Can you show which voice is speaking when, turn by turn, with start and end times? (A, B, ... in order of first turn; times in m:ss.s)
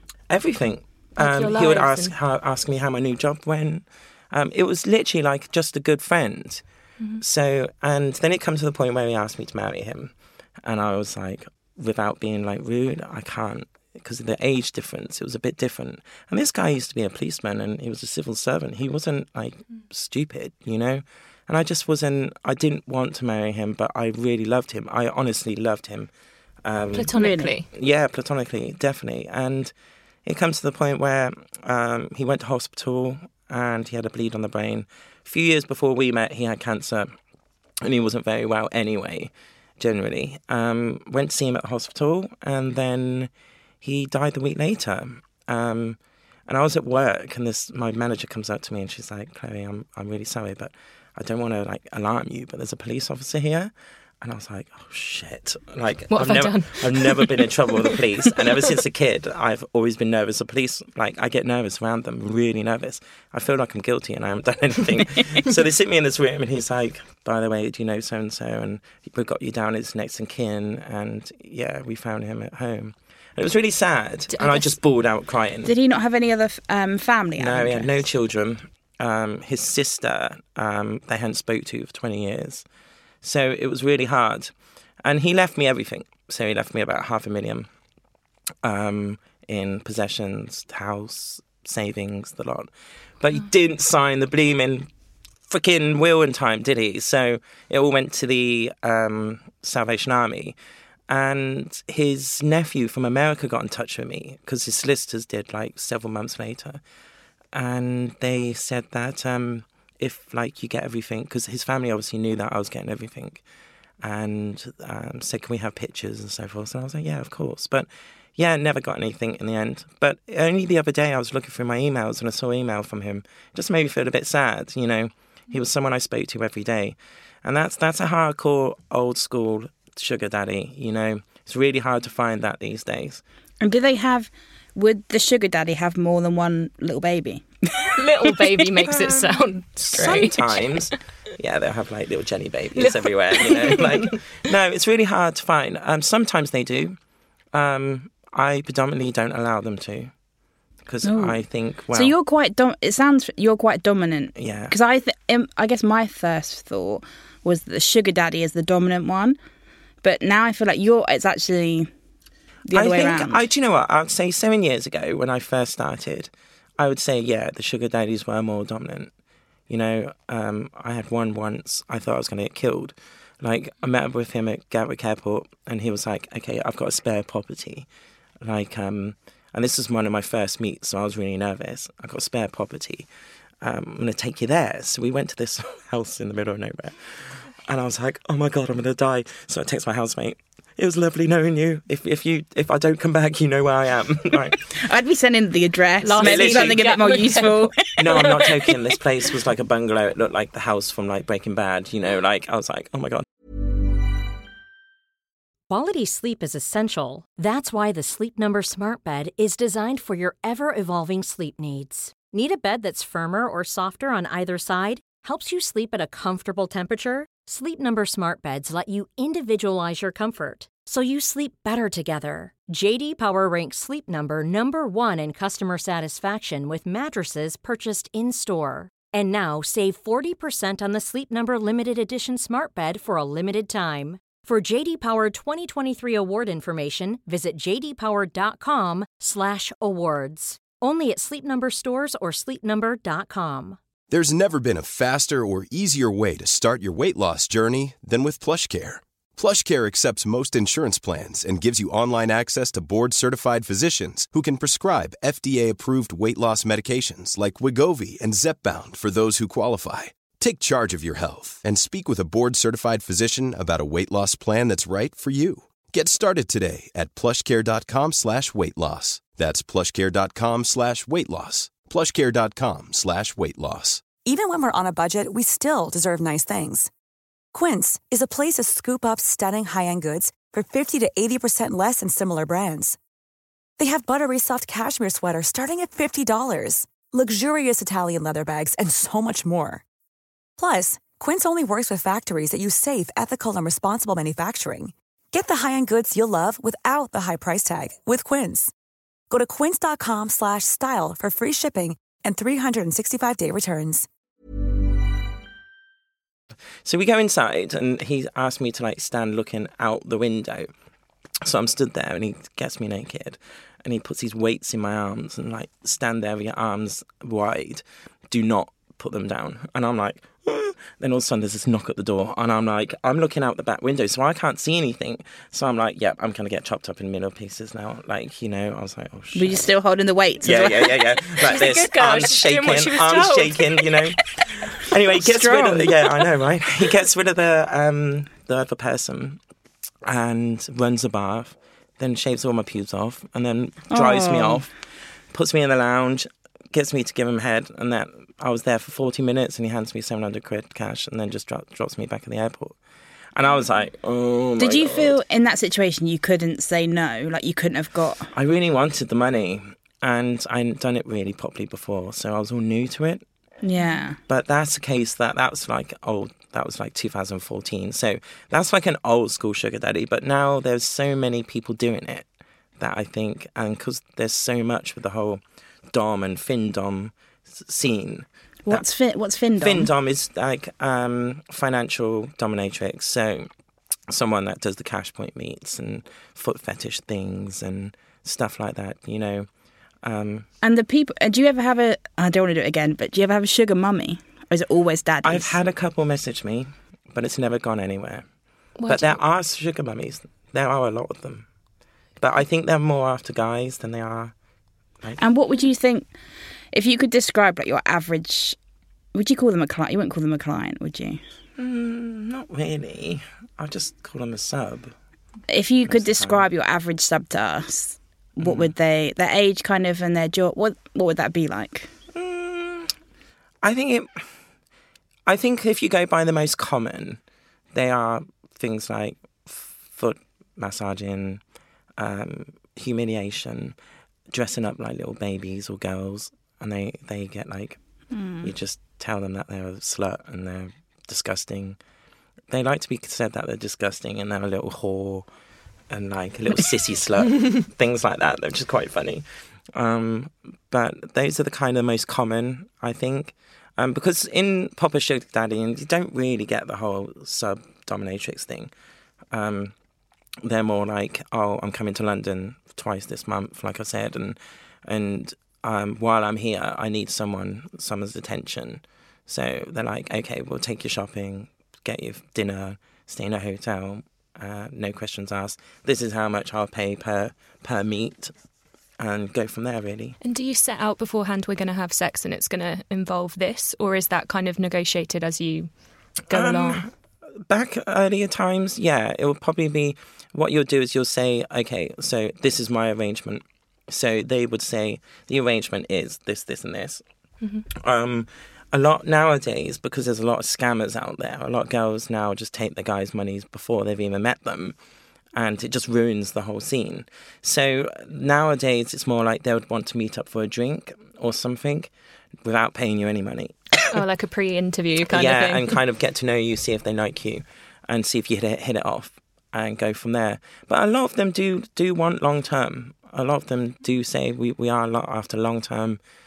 0:00.3-0:06.6 A
0:01.2-0:02.2 B
0:07.2-0:26.1 A
0:26.6-0:29.7 A
0:26.9-0:27.7 B
0:27.2-0:27.5 C
0:30.2-0:37.1 A
0:37.8-0:43.3 A
0:43.8-1:15.7 A
0:56.1-0:58.0 B
1:14.3-1:14.8 B
1:15.6-1:17.9 C
1:17.4-1:22.7 A
1:23.2-1:24.5 A
1:25.0-1:27.7 A
1:28.6-1:34.9 A
1:35.5-1:40.6 A
1:41.1-1:46.8 A
1:47.5-1:53.4 A
1:54.0-2:13.2 A
2:13.6-2:18.4 C
2:17.9-2:20.8 B
2:18.8-2:27.0 A
2:22.8-2:24.2 B
2:27.5-2:30.1 A
2:30.8-2:32.1 A
2:31.0-2:31.4 C
2:31.9-2:39.4 C
2:34.4-2:34.8 A
2:40.0-2:41.9 C
2:42.7-2:43.4 C
2:42.7-2:49.1 A
2:49.7-2:57.9 A
2:58.4-3:03.1 A
3:03.6-3:14.7 A
3:14.8-3:18.5 C
3:16.0-3:18.5 B
3:16.2-3:17.0 A
3:18.0-3:23.2 A
3:25.7-4:03.8 D
4:04.1-4:34.2 E
4:34.2-4:36.9 F
4:37.5-4:43.0 F
4:43.8-4:49.8 F
4:50.6-4:58.7 F
4:59.3-5:04.1 F
5:06.8-5:10.7 A
5:11.4-5:29.5 A
5:29.4-5:31.0 C
5:30.4-5:39.4 A
5:31.4-5:33.9 B
5:35.2-5:36.0 C
5:40.0-5:44.7 A
5:43.9-5:44.6 C
5:45.3-5:52.8 A
5:53.3-5:55.2 A
5:54.6-5:58.3 C
5:58.3-6:03.2 A
6:03.6-6:04.2 C
6:04.3-6:12.3 A
6:12.8-6:18.8 A
6:18.7-6:19.9 C
6:19.6-6:23.5 A
6:24.1-6:29.5 A
6:30.0-6:30.5 A
6:30.6-6:35.6 C
6:35.2-6:38.3 A
6:38.8-6:39.2 B
6:38.9-6:41.5 A
6:42.2-6:44.4 A
6:45.2-6:46.1 C
6:46.7-6:48.6 C
6:49.1-6:51.2 C
6:51.6-6:54.9 A
6:55.5-7:01.9 C
6:55.9-6:56.5 A
6:58.4-6:58.7 A
7:02.1-7:02.9 A
7:03.6-7:04.2 A
7:05.3-7:07.2 A
7:07.7-7:11.4 A
7:12.0-7:13.8 A
7:14.3-7:21.8 A
7:18.1-7:18.5 C
7:22.5-7:25.3 A
7:25.9-7:38.7 A
7:39.3-7:39.7 A
7:40.4-7:58.3 A
7:59.0-8:00.2 A
8:00.2-8:05.7 B
8:06.3-8:06.9 B
8:06.3-8:06.9 A
8:07.5-8:17.0 A
8:17.8-8:24.8 A
8:25.4-8:31.9 A
8:32.4-8:33.9 A
8:33.9-8:35.8 B
8:35.1-8:46.0 A